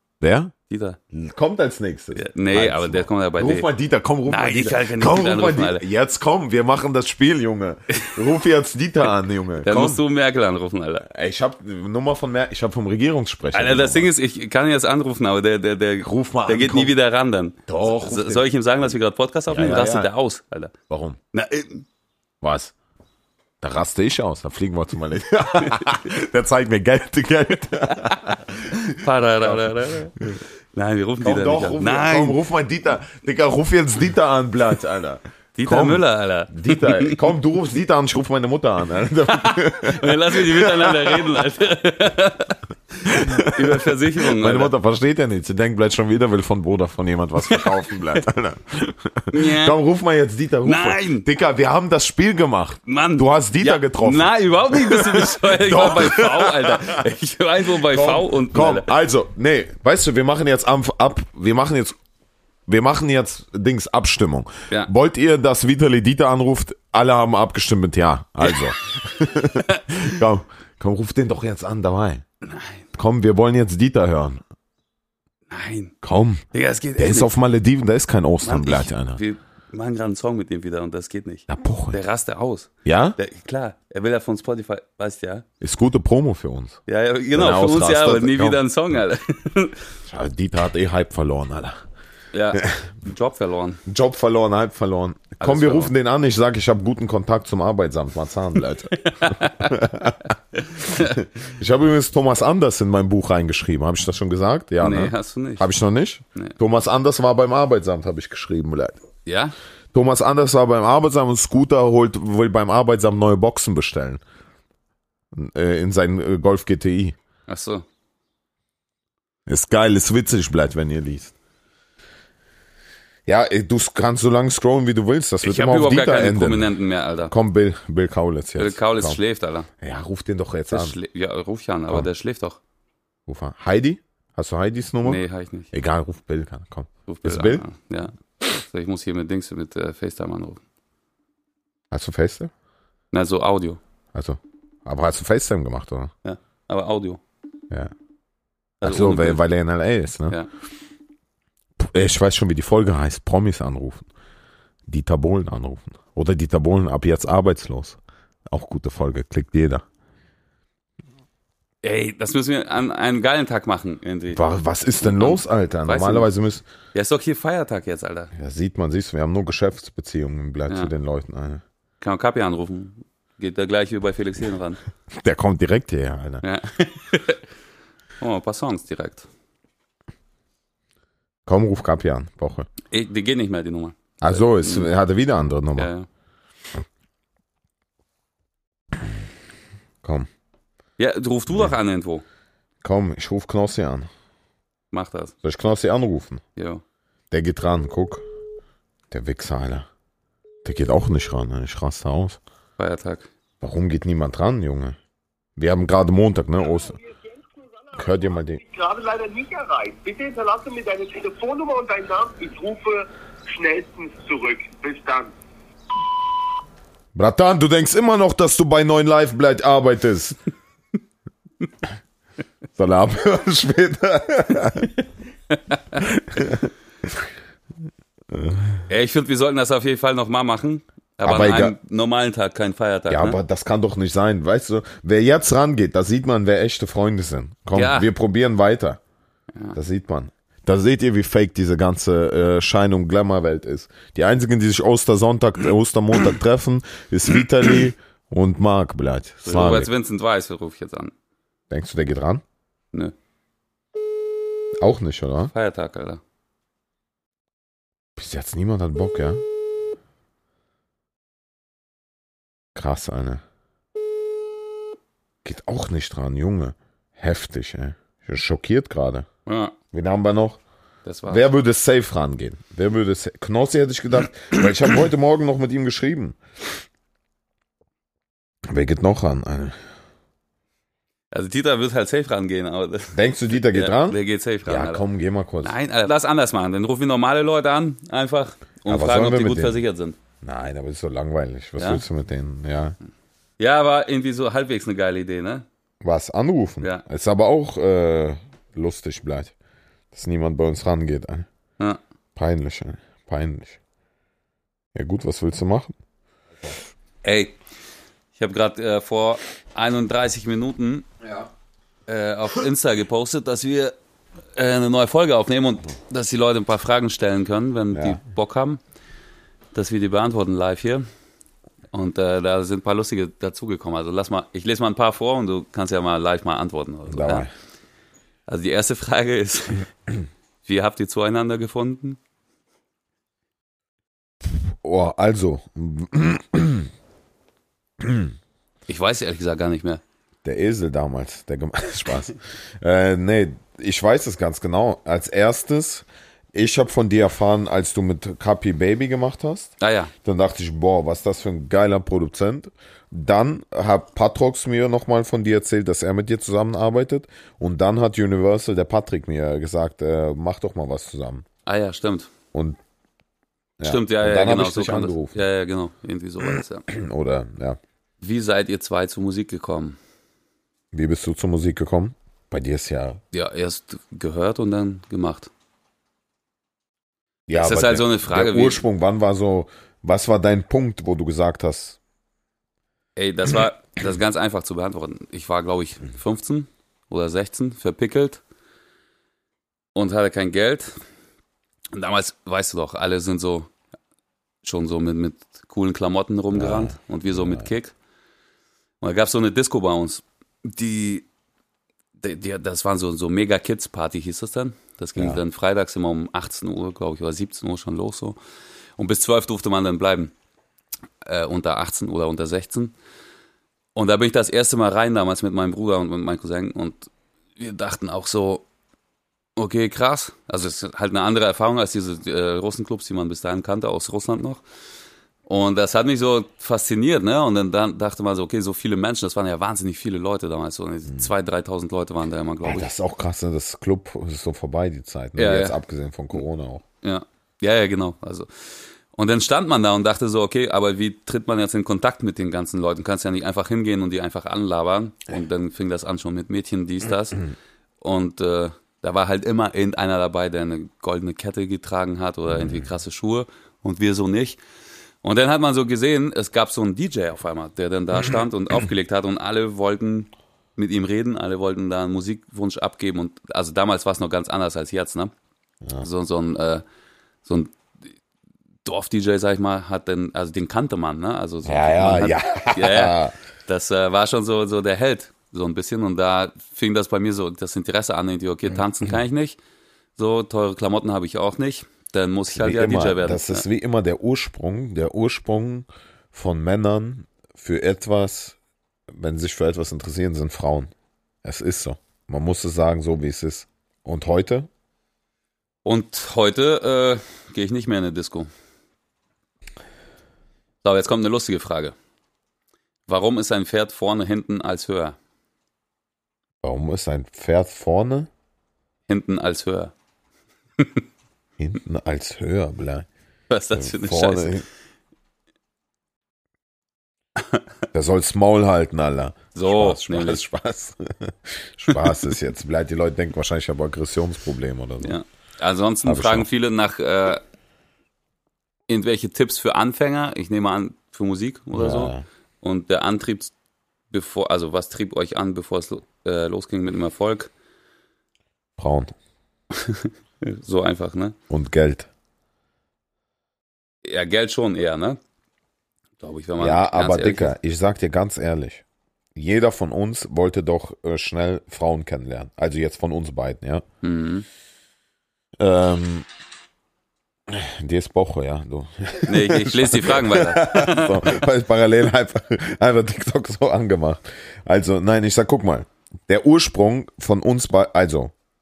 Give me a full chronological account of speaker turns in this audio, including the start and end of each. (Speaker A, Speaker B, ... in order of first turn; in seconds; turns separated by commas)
Speaker A: 0.2-0.5, Speaker B: 0.7-1.0, Speaker A: 1.1-10.0, Speaker B: 2.1-3.7, Speaker B: 4.3-5.8, Speaker B: 9.6-11.0, Speaker A: 11.0-14.1, Speaker B: 13.5-20.7, Speaker A: 16.0-16.9, Speaker A: 17.7-18.5, Speaker A: 19.5-20.1, Speaker A: 20.9-21.2, Speaker B: 21.3-21.8, Speaker A: 22.4-22.7, Speaker A: 23.6-28.8, Speaker B: 28.8-32.4, Speaker A: 29.4-30.4, Speaker A: 31.2-41.2, Speaker B: 35.5-37.2, Speaker B: 39.3-44.7, Speaker A: 43.0-57.0, Speaker B: 47.4-48.1, Speaker B: 49.3-49.8, Speaker B: 50.6-51.3, Speaker B: 52.9-58.9, Speaker A: 57.7-62.0, Speaker A: 62.7-72.2, Speaker B: 69.5-69.9, Speaker B: 72.4-72.8, Speaker A: 72.9-74.4, Speaker B: 75.5-75.9, Speaker A: 76.0-76.4, Speaker B: 76.5-77.3, Speaker A: 77.0-79.2, Speaker B: 78.4-85.4, Speaker A: 81.5-82.0, Speaker A: 82.8-83.2, Speaker A: 85.6-86.8, Speaker B: 86.9-89.8, Speaker A: 87.3-88.6, Speaker A: 90.1-91.8, Speaker B: 92.3-93.8, Speaker A: 92.5-92.9, Speaker A: 93.8-109.0, Speaker B: 95.4-95.9, Speaker B: 99.0-99.7, Speaker B: 100.8-101.1, Speaker B: 104.8-105.7, Speaker B: 109.2-109.5, Speaker A: 109.9-114.2, Speaker A: 115.3-117.2, Speaker B: 117.5-117.8, Speaker A: 119.5-121.3, Speaker A: 123.3-126.7, Speaker B: 125.4-127.3, Speaker A: 127.3-129.2, Speaker B: 128.6-129.7, Speaker A: 129.8-131.0, Speaker B: 130.7-132.6, Speaker A: 133.3-137.7, Speaker B: 135.0-135.7, Speaker B: 137.1-140.6, Speaker A: 141.9-142.5, Speaker B: 143.1-143.8, Speaker A: 144.1-146.1, Speaker B: 146.2-147.2, Speaker B: 148.8-149.4, Speaker A: 148.8-150.4, Speaker A: 151.8-154.1, Speaker A: 154.9-159.8, Speaker B: 161.8-164.4, Speaker A: 164.3-166.6, Speaker B: 165.0-166.3, Speaker B: 166.9-168.3, Speaker A: 168.3-171.6, Speaker B: 172.0-174.8, Speaker A: 175.1-176.4, Speaker B: 176.4-177.4, Speaker B: 178.2-179.3, Speaker A: 181.4-182.7, Speaker B: 182.9-184.9, Speaker A: 184.2-185.9, Speaker B: 185.8-186.1, Speaker A: 190.0-190.3, Speaker B: 191.0-192.2, Speaker A: 192.8-194.1, Speaker B: 194.9-195.3, Speaker A: 195.4-196.4, Speaker B: 196.6-196.8, Speaker A: 197.3-198.2, Speaker A: 199.1-199.9, Speaker A: 200.6-202.4, Speaker B: 202.8-203.3, Speaker A: 203.6-205.0, Speaker A: 205.6-207.0, Speaker C: 206.6-215.3, Speaker A: 207.9-208.6, Speaker A: 217.1-220.4, Speaker A: 222.8-224.9, Speaker B: 225.5-225.8, Speaker A: 226.0-227.2, Speaker A: 228.3-228.8, Speaker B: 228.9-233.4, Speaker A: 231.2-231.8, Speaker A: 233.1-239.0, Speaker B: 237.7-238.1, Speaker A: 239.7-249.9, Speaker B: 249.4-251.1, Speaker A: 251.7-252.4, Speaker A: 254.8-255.5, Speaker B: 255.5-256.2, Speaker A: 258.2-259.4, Speaker A: 262.7-263.4, Speaker A: 265.4-269.3, Speaker B: 269.4-269.8, Speaker A: 269.9-270.6, Speaker B: 271.0-271.4, Speaker A: 271.3-276.4, Speaker A: 278.7-279.8, Speaker B: 281.3-285.0, Speaker A: 283.1-285.7, Speaker B: 285.6-290.2, Speaker A: 288.9-289.8, Speaker A: 290.4-293.0, Speaker B: 291.8-292.0, Speaker B: 293.6-295.6, Speaker A: 296.0-299.5, Speaker A: 300.1-301.5, Speaker A: 302.4-303.8, Speaker A: 304.9-305.9, Speaker B: 307.2-307.6, Speaker B: 308.4-311.1, Speaker B: 312.1-313.9, Speaker B: 314.5-318.8, Speaker A: 317.9-318.2, Speaker B: 319.7-321.1, Speaker B: 321.9-327.5, Speaker A: 327.1-327.5, Speaker B: 328.5-329.9, Speaker B: 330.6-332.2, Speaker A: 334.8-336.9, Speaker A: 338.0-338.3, Speaker B: 338.9-340.0, Speaker A: 340.4-349.7, Speaker B: 349.8-350.1, Speaker A: 350.2-361.4, Speaker B: 361.6-362.3, Speaker A: 363.8-365.4, Speaker B: 363.8-366.9, Speaker A: 366.9-367.8, Speaker B: 368.2-370.0, Speaker A: 370.9-373.2, Speaker B: 373.3-375.5, Speaker A: 377.5-382.0, Speaker B: 377.6-378.9, Speaker B: 383.1-388.4, Speaker B: 389.9-391.0, Speaker B: 391.9-393.7, Speaker B: 394.6-397.9, Speaker A: 396.5-397.7, Speaker B: 399.0-401.3, Speaker B: 402.2-408.4, Speaker A: 405.1-405.4, Speaker B: 409.0-410.3, Speaker B: 411.2-412.9, Speaker B: 413.9-418.6, Speaker B: 419.6-424.6, Speaker B: 425.4-432.9, Speaker A: 432.6-436.8, Speaker B: 435.4-435.8, Speaker B: 437.0-447.5, Speaker B: 448.0-454.6, Speaker B: 455.2-465.3, Speaker B: 466.0-466.8, Speaker B: 467.4-467.8, Speaker B: 468.8-479.6, Speaker A: 471.6-473.4, Speaker B: 480.1-483.6, Speaker A: 482.5-488.6, Speaker A: 489.1-490.9, Speaker A: 491.4-494.7, Speaker B: 495.8-498.5, Speaker B: 500.8-501.9, Speaker B: 503.1-505.2, Speaker A: 506.6-508.3, Speaker B: 509.1-509.9, Speaker B: 510.8-511.0, Speaker A: 511.6-513.1, Speaker B: 513.5-514.6, Speaker A: 513.7-514.6, Speaker B: 517.4-517.6, Speaker A: 517.9-525.2, Speaker B: 519.5-520.4, Speaker B: 521.9-522.2, Speaker B: 525.0-527.4, Speaker A: 526.0-526.5, Speaker B: 528.9-533.5, Speaker A: 531.7-532.2, Speaker B: 534.1-537.5, Speaker A: 538.8-539.1, Speaker B: 539.7-541.4, Speaker A: 541.5-542.1, Speaker B: 544.0-545.2, Speaker B: 546.2-547.5, Speaker A: 546.6-548.8, Speaker A: 549.3-553.8, Speaker B: 554.0-554.5, Speaker A: 555.6-556.2, Speaker A: 557.5-568.3, Speaker B: 559.3-561.3